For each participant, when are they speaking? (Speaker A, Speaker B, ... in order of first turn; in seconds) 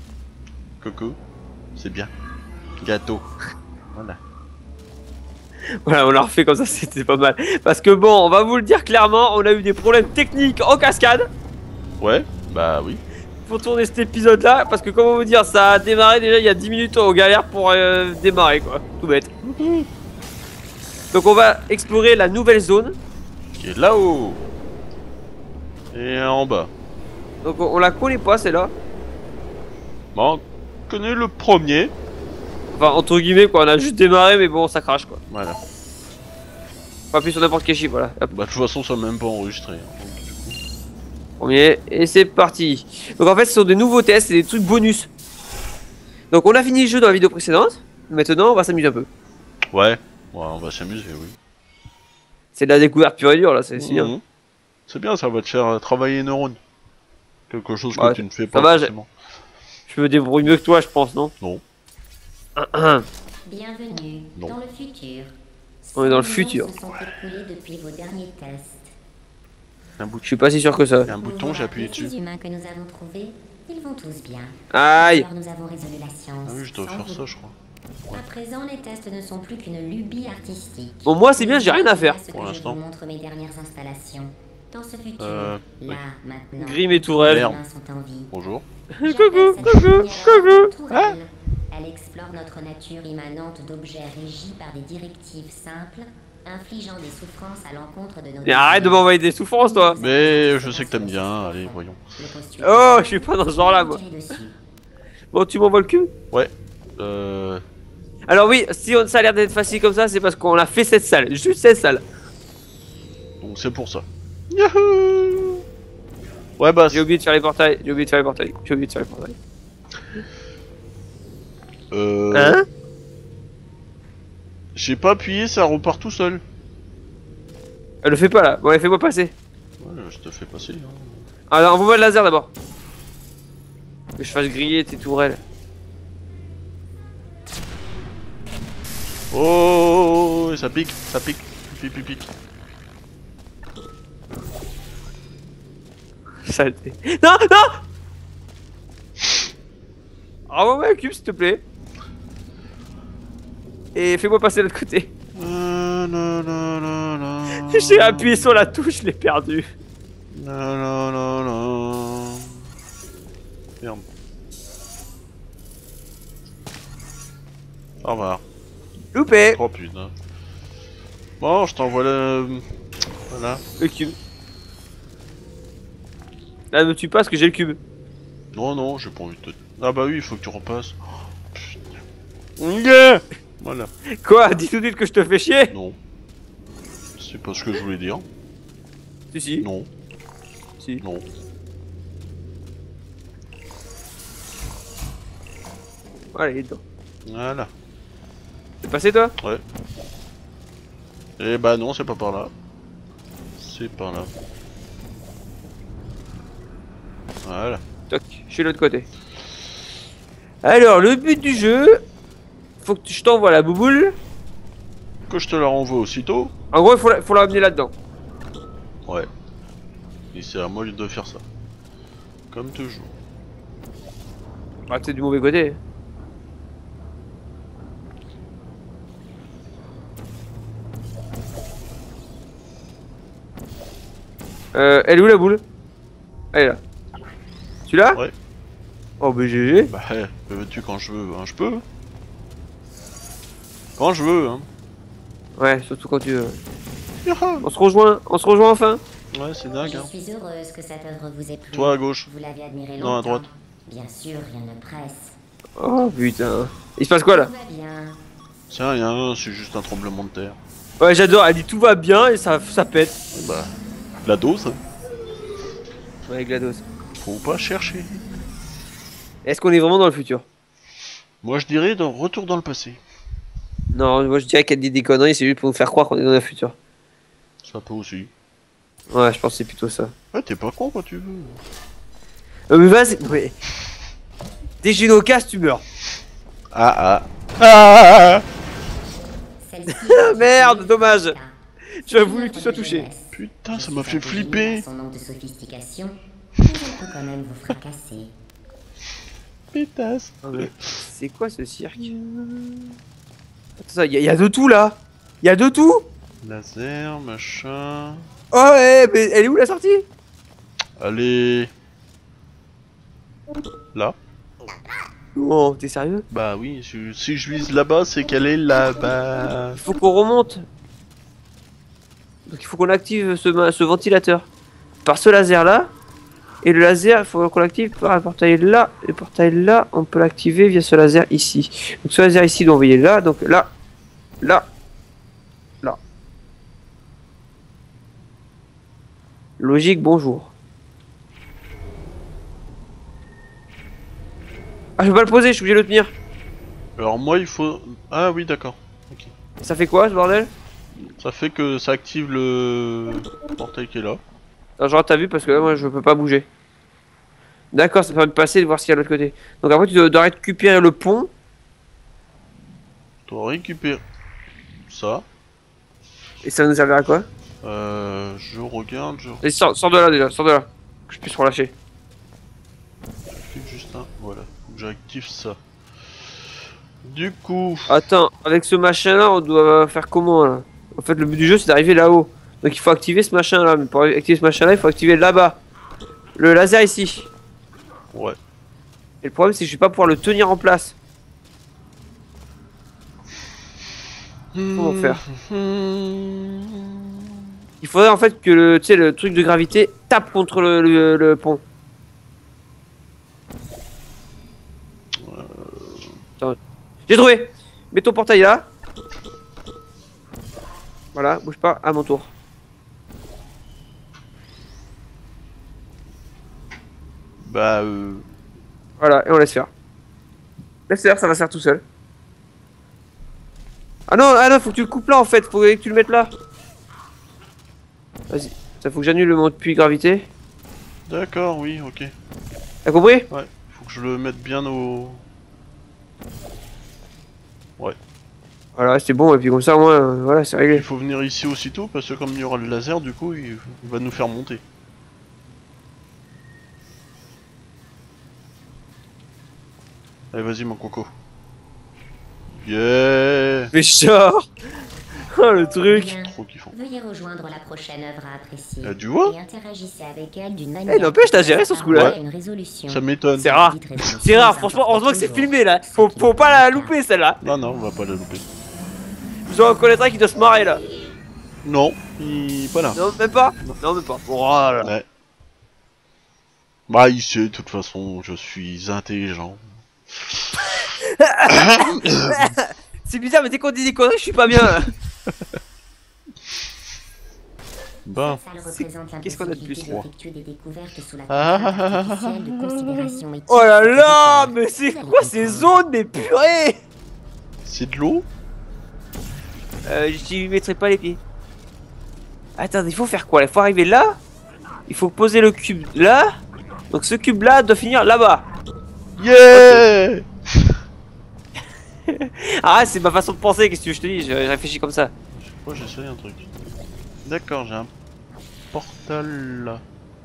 Speaker A: 0.8-1.2, 1.8-2.1, 2.8-3.3, 3.9-4.2, 12.0-13.0, 19.4-19.9, 23.5-24.4, 25.9-26.7, 30.1-31.9, 35.3-35.6, 38.3-40.6, 49.7-51.4, 53.8-54.2, 54.9-56.6, 57.5-59.1, 70.0-70.2, 71.1-72.1, 76.4-77.5, 82.3-82.8, 85.2-86.0, 87.3-87.6, 88.3-88.6, 90.9-91.2, 100.0-102.0, 106.3-107.6, 113.4-115.6, 116.6-117.0, 121.9-122.6, 124.7-126.4, 129.8-131.3, 139.3-142.3, 155.3-158.7, 160.3-162.7, 163.8-164.1, 168.0-168.4, 169.5-170.1, 171.4-172.6, 173.3-173.6, 178.5-181.0, 181.5-182.0, 182.6-183.9, 185.7-186.0, 187.2-188.2, 189.6-189.9, 191.0-191.2, 197.2-197.7, 201.4-202.5, 203.6-204.3, 207.4-207.8, 215.3-216.5, 220.3-221.4, 222.5-223.2, 239.9-241.8, 244.0-244.7, 247.2-247.6, 249.3-250.1, 251.7-252.3, 253.0-253.4, 258.7-260.6, 263.3-263.7, 264.2-264.8, 267.2-268.1, 271.4-273.0, 277.6-278.3, 280.3-281.6, 286.7-288.4, 293.3-294.8, 299.7-301.0, 302.0-302.9, 306.4-308.3, 311.0-311.7, 316.3-319.8, 347.0-349.3, 351.2-354.2, 363.2-364.0, 364.9-365.2, 367.6-369.4, 373.3-375.6, 376.1-378.0, 388.1-388.4, 394.5-397.5, 405.2-406.2, 417.4-418.3, 431.1-432.1, 433.3-435.2, 440.7-444.6, 450.3-451.1, 452.6-453.7, 456.2-456.7, 458.8-459.4, 461.9-462.2, 462.9-464.2, 467.4-468.4, 471.6-473.0, 476.9-480.9, 481.5-482.5, 488.0-488.4, 491.3-493.2, 497.6-498.2, 509.2-510.8, 515.3-516.5, 517.2-517.9, 518.7-519.8
Speaker B: 5.8-11.3, 13.4-19.3, 21.1-22.9, 27.4-28.7, 32.7-35.2, 37.1-38.3, 41.4-45.1, 46.3-49.1, 52.5-54.1, 57.9-58.9, 59.9-61.3, 62.6-63.0, 66.0-66.7, 70.2-71.1, 74.7-75.2, 81.0-82.2, 86.6-87.6, 89.0-90.7, 98.4-100.0, 102.6-104.0, 105.3-106.1, 108.3-112.0, 116.9-119.3, 122.3-122.7, 128.0-129.3, 131.5-132.5, 134.2-135.4, 146.4-147.8, 150.5-151.6, 153.9-155.1, 157.5-159.7, 169.1-169.6, 173.8-174.1, 176.7-177.8, 184.2-185.7, 189.3-189.7, 196.3-196.8, 198.8-199.3, 208.1-209.1, 210.6-212.0, 212.8-214.2, 216.7-217.9, 224.9-225.8, 234.7-235.6, 236.5-236.8, 237.9-238.2, 239.2-239.9, 245.6-246.6, 247.6-249.0, 255.8-257.5, 261.0-263.2, 266.2-266.8, 269.4-270.4, 273.9-276.7, 279.1-280.1, 282.7-283.5, 284.8-285.8, 290.0-291.3, 292.0-293.1, 300.4-302.1, 303.8-306.1, 308.5-310.0, 315.4-316.2, 319.8-320.6, 322.4-324.5, 325.0-325.9, 326.6-333.7, 334.4-334.7, 339.6-340.5, 345.0-346.1, 349.6-350.5, 354.8-356.4, 357.7-361.3, 366.4-367.3, 369.4-371.7, 377.9-385.6, 386.4-387.3, 389.2-390.9, 394.7-395.2, 397.8-401.6, 407.1-408.7, 411.1-412.3, 419.0-419.7, 420.9-421.8, 424.1-426.3, 428.3-430.3, 432.8-433.3, 438.8-440.8, 453.7-454.5, 455.3-456.2, 460.9-462.2, 463.4-467.4, 469.5-470.8, 472.9-474.9, 480.8-484.9, 488.6-490.0, 493.5-496.8, 499.9-501.2, 502.6-504.2, 504.9-506.3, 506.9-508.4, 509.5-509.8, 512.1-515.1
Speaker C: 63.5-65.3, 65.9-68.9, 71.1-77.2, 78.1-88.3, 89.0-99.1, 99.7-104.6, 249.8-255.3, 257.3-258.2, 289.6-291.6, 292.1-298.3, 455.9-466.9, 488.1-495.8